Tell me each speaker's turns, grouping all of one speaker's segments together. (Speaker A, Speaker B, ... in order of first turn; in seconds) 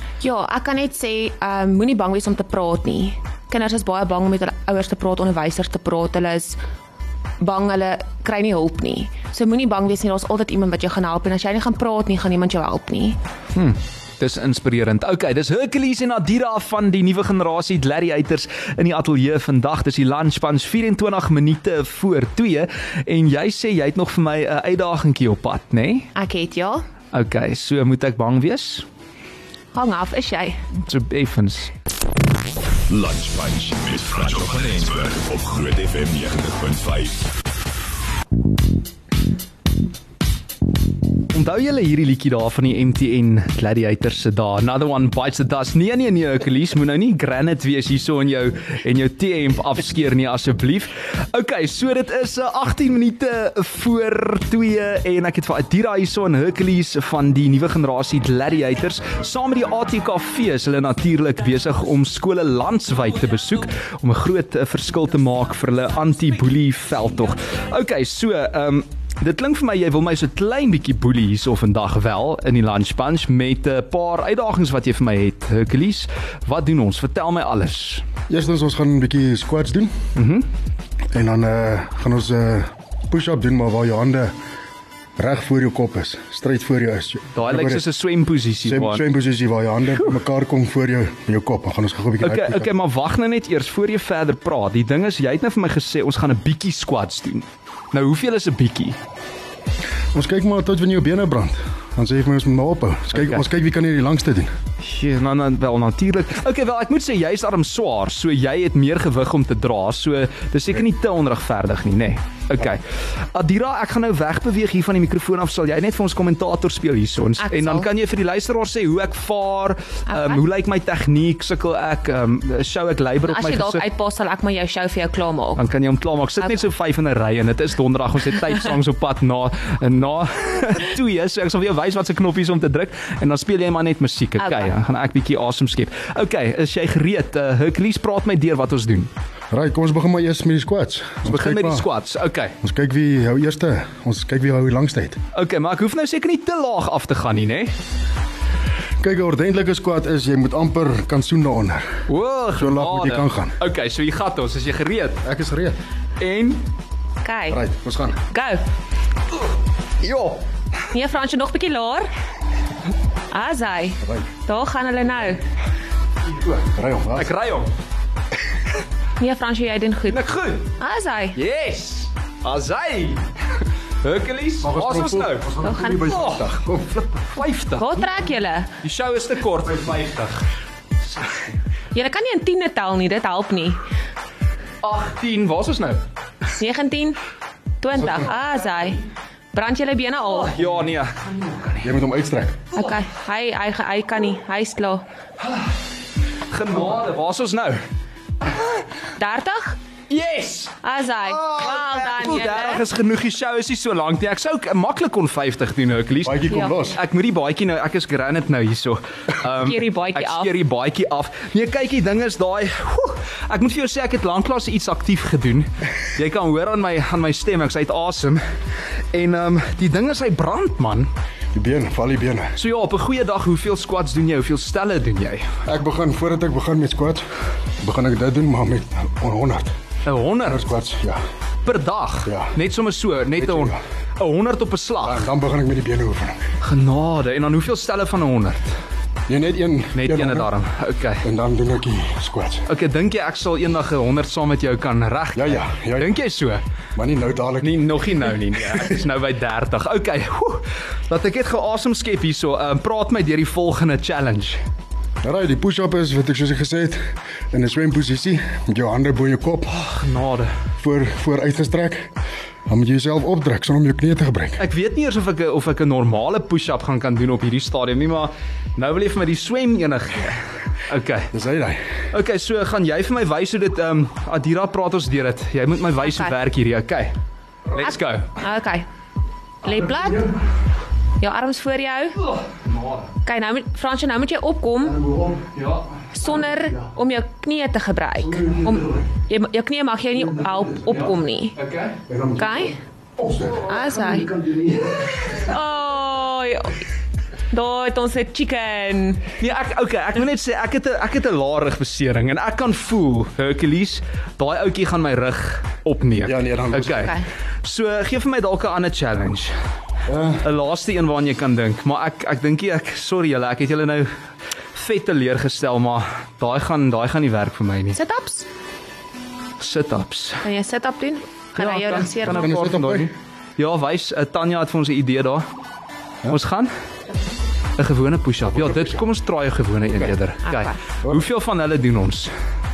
Speaker A: 0.2-6.6, 7.4-13.2, 26.1-26.9, 29.7-30.6, 117.4-117.9, 120.1-120.4, 123.3-125.6, 134.4-134.7, 157.2-157.6, 158.3-158.6, 160.9-162.1, 163.3-165.4, 169.2-170.2, 170.8-171.4, 175.6-176.0, 177.8-178.7, 181.9-183.8, 186.6-187.2, 187.8-189.0, 189.5-190.5, 192.7-195.0, 199.2-199.8, 200.8-202.8, 206.5-206.8, 209.6-210.5, 276.0-276.3, 277.8-278.9, 279.6-280.2, 281.2-282.2, 283.2-285.0, 286.1-291.6, 292.4-292.8, 293.6-294.3, 295.3-296.8, 297.5-299.2, 306.9-307.2, 317.9-318.5, 320.4-322.5, 330.5-330.7
Speaker B: 13.5-26.1, 27.1-28.9, 30.7-31.7, 41.3-78.0, 80.1-80.5, 87.3-89.0, 92.2-99.0, 104.8-123.8, 125.6-139.1, 141.2-142.5, 145.3-147.7, 152.1-155.2, 156.2-156.6, 160.0-160.4, 167.1-167.7, 170.1-170.7, 171.3-173.2, 174.0-178.1, 178.8-180.4, 184.8-186.0, 190.3-191.8, 196.5-197.8, 200.1-218.4, 219.1-221.1, 222.6-225.5, 230.0-230.6, 231.7-235.3, 236.6-238.7, 239.9-241.2, 242.7-246.6, 247.6-254.6, 259.7-260.5, 264.6-271.3, 272.1-277.1, 277.7-278.4, 282.2-283.1, 285.5-285.9, 290.9-292.0, 299.4-309.5, 310.4-314.1, 314.7-318.0, 319.6-320.4, 321.6-325.4, 326.3-326.7, 327.8-332.3
Speaker C: 32.9-37.3
Speaker D: 78.3-79.9, 81.1-84.3, 85.2-87.8, 88.6-92.7, 100.1-104.5, 139.5-141.8, 142.6-145.2, 149.0-151.9, 152.6-153.5, 155.2-155.8, 157.5-158.2, 164.0-164.3, 166.6-167.3, 174.6-177.0, 191.8-192.6, 206.2-207.0, 221.5-222.6, 225.6-227.3, 227.8-229.7, 230.4-231.2, 232.2-232.5, 233.3-233.8, 235.0-236.4, 239.3-240.5, 241.2-242.7, 245.3-246.1, 246.9-248.1, 255.2-259.7, 260.8-262.1, 262.7-264.6, 271.3-271.8, 284.9-285.5, 288.2-289.0, 290.4-290.8, 292.1-295.0, 306.2-307.1, 310.1-310.4, 322.2-323.1, 328.5-328.9